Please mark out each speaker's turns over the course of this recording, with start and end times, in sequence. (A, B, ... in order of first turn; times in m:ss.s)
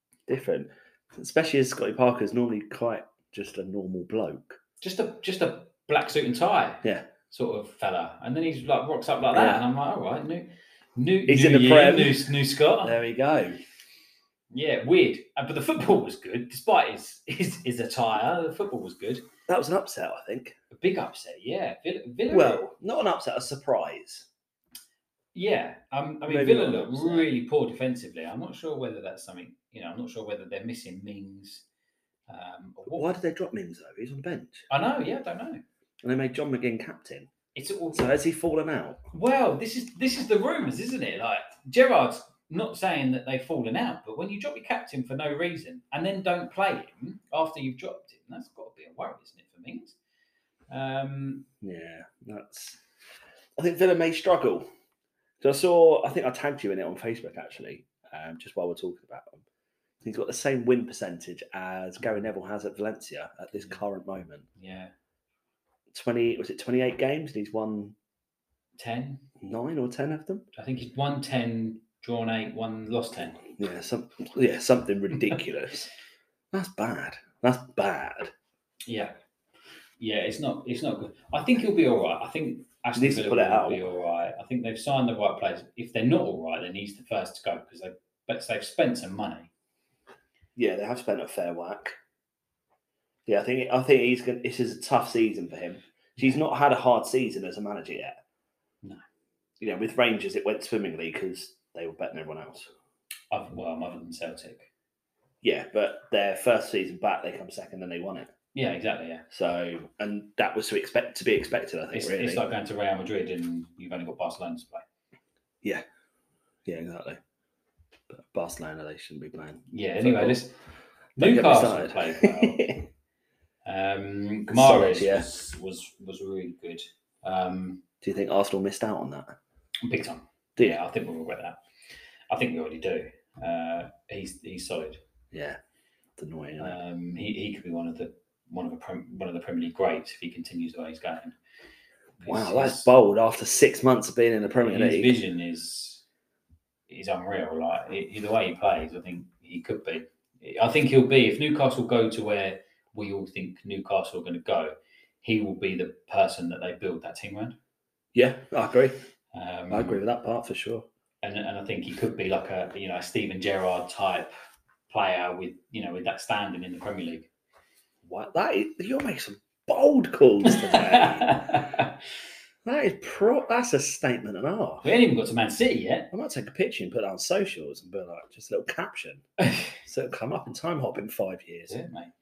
0:00.3-0:04.6 A
0:04.8-0:12.9 B
0:09.3-0:09.6 A
0:11.3-0:12.2 A
0:12.8-0:13.6 A
0:14.5-0:19.2 B
0:19.5-0:20.6 A
0:20.7-0:22.6 B
0:22.3-0:24.2 A
0:25.3-0:31.6 B
0:26.3-0:27.3 A
0:32.3-0:33.0 B
0:32.8-0:34.6 A
0:34.7-0:35.6 B
0:36.0-0:37.3 A
0:37.5-0:38.1 B
0:37.9-0:39.0 A
0:39.1-0:50.0 B
0:50.7-0:51.4 B
0:51.6-0:52.8 A
0:53.6-0:54.7 A
0:55.4-0:59.4 A
1:00.0-1:04.4 A
1:03.5-1:03.8 B
1:04.6-1:04.9 B
1:05.9-1:07.9 A
1:08.8-1:09.2 B
1:09.4-1:10.5 A
1:10.5-1:13.4 B
1:13.4-1:15.9 A
1:16.5-1:18.3 A
1:18.9-1:19.1 B
1:20.0-1:29.5 B
1:23.0-1:23.8 A
1:30.6-1:31.9 A
1:33.3-1:38.2 A
1:39.6-1:42.7 A
1:43.3-1:44.7 B
1:45.4-1:48.3 A
1:48.5-1:49.2 B
1:49.3-1:52.4 A
1:51.9-1:54.8 B
1:56.6-1:57.2 A
1:58.1-2:00.4 A
1:59.7-2:00.5 B
2:01.2-2:02.6 B
2:01.2-2:02.9 A
2:03.6-2:07.8 B
2:04.5-2:05.3 A
2:08.0-2:09.3 A
2:09.8-2:11.6 B
2:12.3-2:15.0 B
2:15.3-2:15.6 A
2:16.2-2:16.8 A
2:16.6-2:21.4 B
2:22.2-2:22.9 B
2:22.2-2:25.2 A
2:24.6-2:26.0 B
2:26.9-2:37.6 B
2:38.1-2:39.0 A
2:39.3-2:40.0 B
2:39.7-2:40.8 A
2:41.2-2:44.3 B
2:44.9-2:47.3 B
2:48.0-2:51.6 A
2:50.5-2:51.9 B
2:52.6-2:54.8 A
2:54.8-2:56.1 B
2:56.1-2:59.2 A
2:59.8-3:01.8 A
3:01.7-3:02.1 B